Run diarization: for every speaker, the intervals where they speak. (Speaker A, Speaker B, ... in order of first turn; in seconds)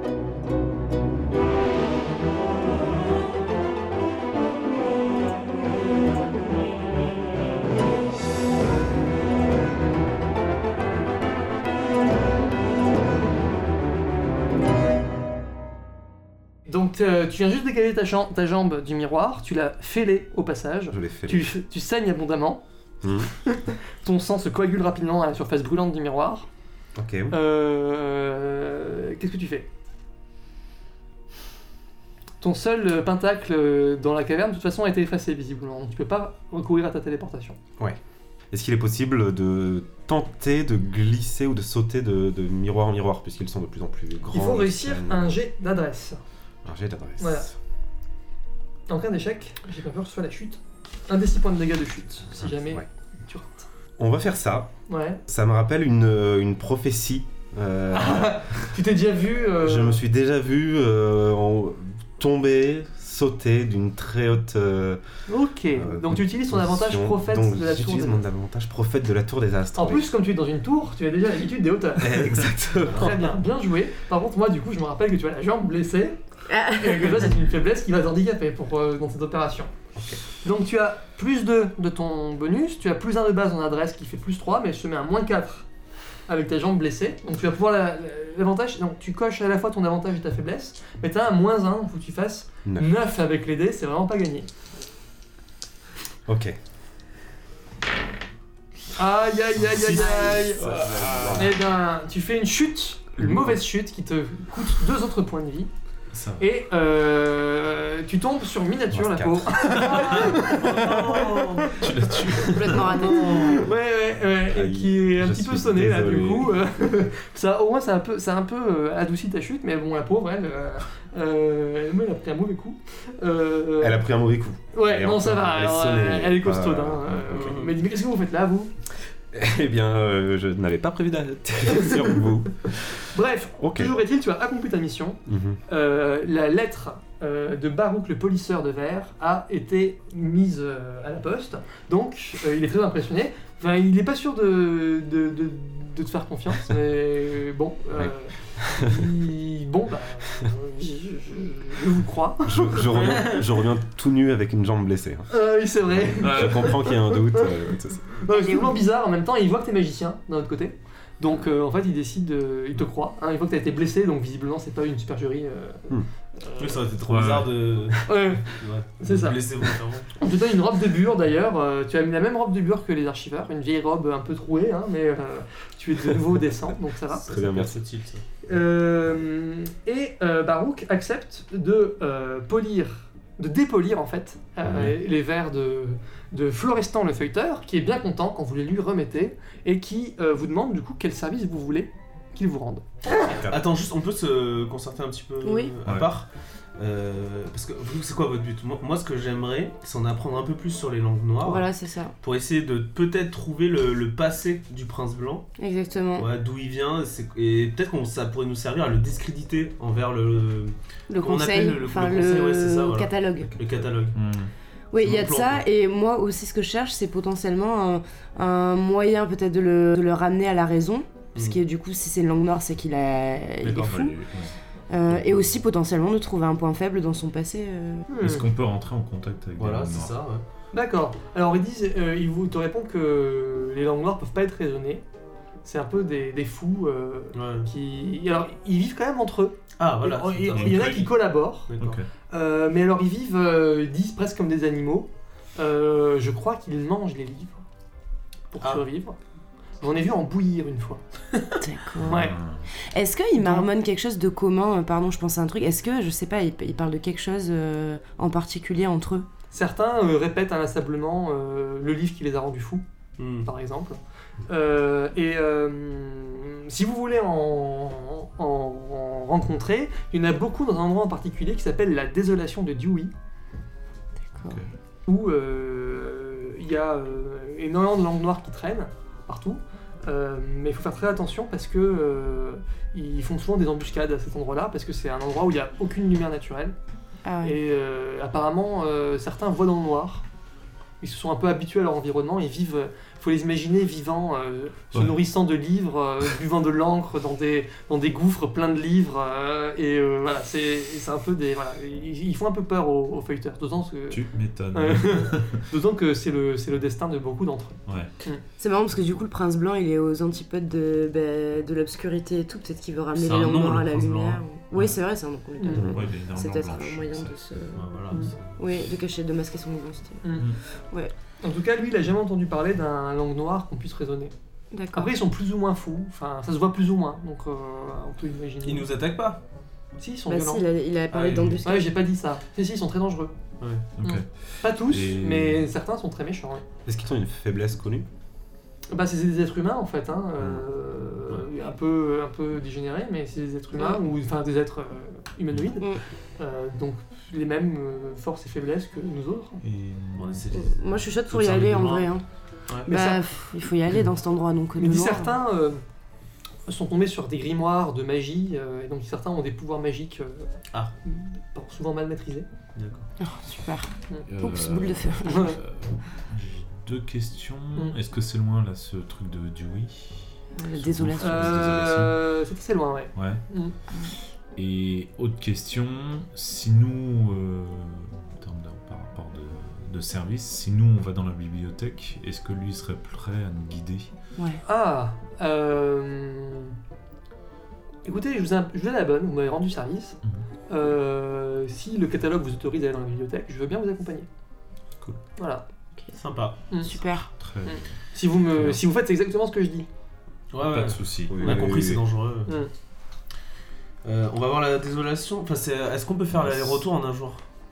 Speaker A: 16.7-22.6, 23.4-26.5, 27.3-29.7, 32.4-37.6, 44.3-46.2, 47.2-47.5, 48.9-53.7, 54.9-55.2, 57.9-60.0, 65.3-68.2, 69.8-79.7, 80.4-85.7, 86.3-94.5, 98.9-100.8, 101.3-105.7, 106.4-111.9, 112.5-124.0, 124.7-128.7, 133.1-153.4, 155.3-157.5, 158.2-166.9, 168.0-177.3, 178.4-193.1, 228.1-228.4, 230.7-235.0, 235.6-241.7, 242.3-247.6, 248.5-249.2, 249.8-252.3, 253.4-253.7, 259.5-262.8, 263.4-273.1, 275.1-286.7, 287.4-290.2, 291.0-308.4, 315.6-315.9, 320.2-320.5, 321.4-324.3, 324.9-328.9, 330.0-330.6, 331.6-333.3, 334.6-336.6, 338.9-349.6, 352.9-353.5, 354.8-355.8, 356.7-360.5, 361.1-362.5, 365.2-365.6, 371.2-373.7, 384.6-386.7, 388.0-390.2, 390.7-394.3, 395.4-395.6, 396.7-396.9, 397.6-399.9
Speaker B: 20.9-21.5, 23.0-23.3, 26.9-27.3, 38.5-45.4, 46.6-47.5, 54.0-54.7, 55.3-58.6, 59.6-65.0, 65.7-70.1, 72.0-73.3, 92.6-92.9, 96.3-96.6, 100.6-101.5, 108.9-110.3, 114.5-116.6, 123.8-127.6, 129.3-133.9, 135.2-135.6, 148.6-149.0, 152.4-155.3, 155.9-158.2, 177.1-177.8, 193.3-193.7, 336.9-338.1, 401.3-402.0
Speaker C: 76.5-77.3, 112.4-113.7, 158.3-158.8, 195.4-195.7, 201.4-202.1, 205.6-206.3, 211.1-213.5, 214.9-224.2, 224.9-228.1, 251.6-259.3, 274.3-274.6, 287.2-287.6, 308.6-317.9, 318.6-321.1, 324.7-325.1, 330.3-331.9, 343.7-344.0, 350.5-352.2, 352.8-355.4, 363.2-365.6, 370.6-371.9, 384.4-384.6, 396.8-397.3
Speaker D: 99.7-100.6, 109.8-111.8, 113.1-113.4, 127.3-127.7, 166.6-170.1, 177.1-178.2, 193.4-201.7, 202.2-205.5, 206.2-214.2, 215.0-215.6, 221.3-221.6, 223.6-223.9, 229.6-230.4, 237.3-237.7, 239.8-241.1, 241.7-242.0, 263.2-263.5, 313.1-314.4, 317.7-318.6, 328.6-329.4, 331.1-331.6, 333.6-333.9, 350.1-352.1, 362.7-363.1, 396.1-396.6, 400.5-402.6, 404.0-407.4
Speaker E: 100.6-101.5, 106.1-106.5, 111.8-112.9, 156.2-156.7, 167.1-167.7, 214.1-214.5, 223.6-224.5, 225.1-225.5, 228.2-230.2, 240.5-241.1, 241.8-242.1, 252.0-252.7, 304.1-305.6, 315.7-317.4, 334.0-335.7, 349.6-350.5, 364.3-372.2, 373.1-373.4, 374.5-384.1, 397.4-398.0, 398.5-398.8, 400.6-401.7, 406.3-406.8